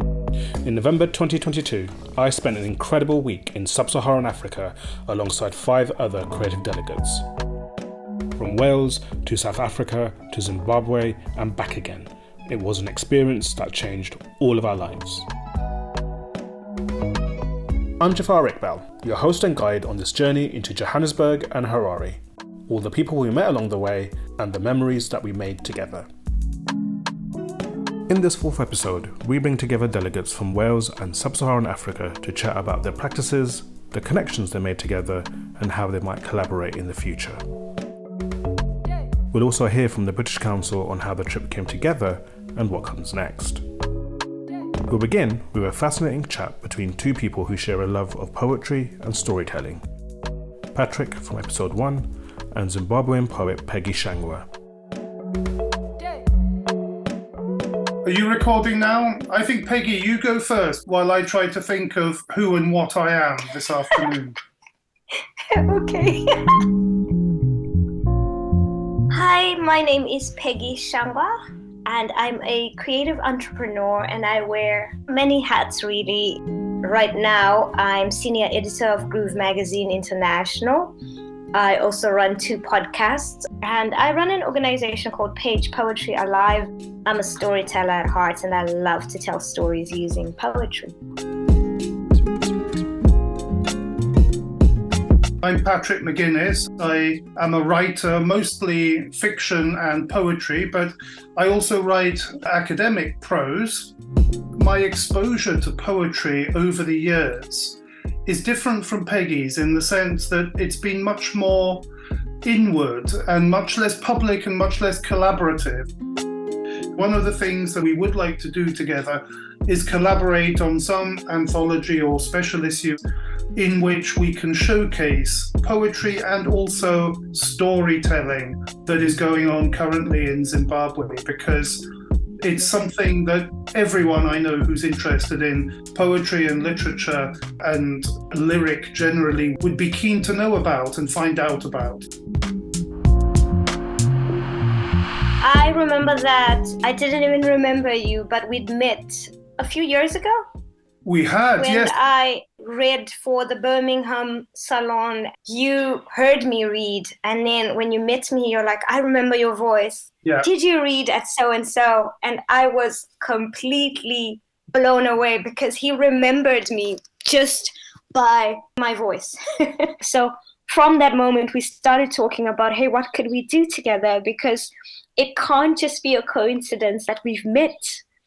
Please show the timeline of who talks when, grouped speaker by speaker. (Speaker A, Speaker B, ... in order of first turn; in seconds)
Speaker A: 0.6-7.2, 8.4-15.2, 18.0-26.1, 28.1-37.4, 39.3-43.6, 44.8-49.8, 50.7-54.5
Speaker B: 58.0-64.3, 95.4-103.9, 104.6-111.9, 112.4-115.9, 117.0-123.0, 123.6-131.8, 132.4-142.0, 151.0-151.9
Speaker C: 65.5-66.7, 69.1-71.3, 71.8-80.9, 81.5-90.9, 145.4-150.4, 151.6-178.0